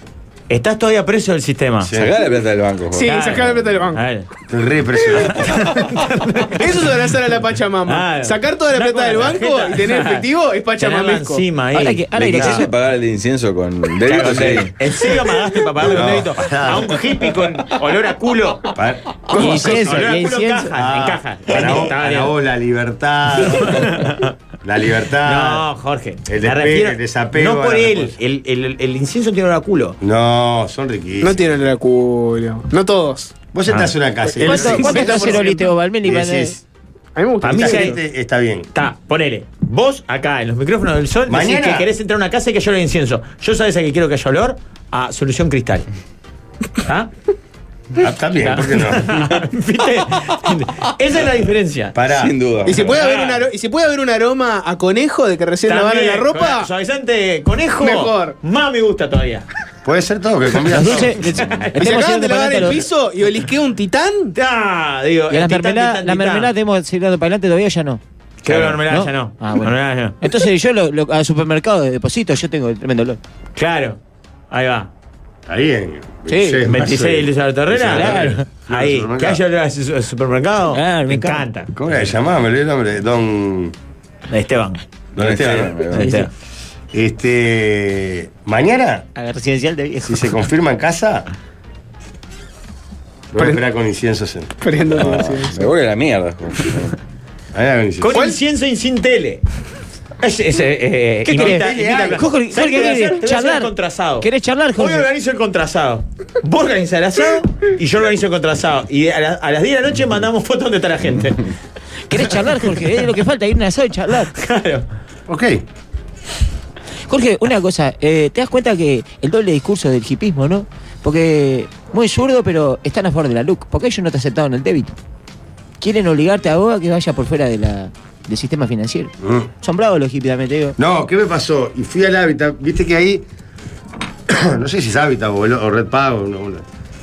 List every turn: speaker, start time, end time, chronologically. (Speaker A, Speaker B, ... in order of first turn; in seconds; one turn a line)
Speaker A: 0.5-1.9
Speaker B: 1.8-2.1
Speaker C: 1.9-3.5
Speaker D: 2.9-4.0
Speaker A: 3.1-4.3
Speaker B: 4.5-5.4
Speaker A: 5.3-6.9
Speaker D: 6.5-11.4
Speaker A: 7.9-10.2
Speaker A: 10.8-12.7
Speaker E: 11.7-12.7
Speaker C: 12.1-14.7
Speaker A: 14.0-18.7
Speaker B: 15.8-17.0
Speaker B: 18.7-20.1
Speaker E: 19.3-20.7
Speaker A: 19.3-22.3
Speaker D: 19.3-19.9
Speaker B: 20.7-23.8
Speaker A: 23.5-24.3
Speaker B: 24.6-25.6
Speaker A: 25.2-30.0
Speaker B: 26.2-28.1
Speaker B: 30.0-31.5
Speaker D: 31.2-33.3
Speaker B: 33.5-35.5
Speaker D: 34.2-35.7
Speaker E: 34.4-36.5
Speaker B: 36.0-36.6
Speaker D: 37.1-38.0
Speaker A: 37.4-38.0
Speaker B: 37.5-38.7
Speaker A: 38.7-45.9
Speaker B: 41.3-41.9
Speaker A: 46.8-47.1
Speaker B: 48.0-49.1
Speaker A: 48.4-51.9
Speaker B: 51.9-52.3
Speaker C: 52.1-53.0
Speaker D: 52.6-56.7
Speaker A: 52.8-53.4
Speaker A: 55.7-59.5
Speaker D: 57.8-58.3
Speaker B: 59.8-61.2
Speaker E: 60.7-62.9
Speaker A: 60.8-61.7
Speaker D: 61.8-64.3
Speaker A: 64.3-66.5
Speaker E: 65.3-73.2
Speaker A: 68.4-70.2
Speaker A: 73.5-74.0
Speaker A: 74.5-74.9
Speaker B: 75.5-79.4
Speaker E: 76.3-76.7
Speaker A: 76.6-81.7
Speaker E: 77.9-78.4
Speaker E: 80.7-81.5
Speaker B: 81.7-83.7
Speaker A: 84.3-84.8
Speaker B: 85.2-85.8
Speaker C: 85.2-86.2
Speaker A: 85.9-86.3
Speaker E: 86.0-86.3
Speaker B: 86.9-89.0
Speaker E: 89.2-90.3
Speaker B: 90.0-91.2
Speaker B: 93.3-94.6
Speaker D: 94.6-95.7
Speaker C: 94.9-97.0
Speaker B: 97.5-98.2
Speaker A: 98.0-99.4
Speaker D: 98.1-98.4
Speaker A: 100.2-111.4
Speaker E: 101.2-105.1
Speaker B: 101.3-102.3
Speaker E: 112.1-114.3
Speaker A: 112.2-112.8
Speaker A: 114.3-114.8
Speaker B: 115.3-115.6
Speaker E: 117.1-124.9
Speaker E: 125.8-130.8
Speaker B: 129.2-129.5
Speaker B: 130.8-133.2
Speaker B: 134.3-136.6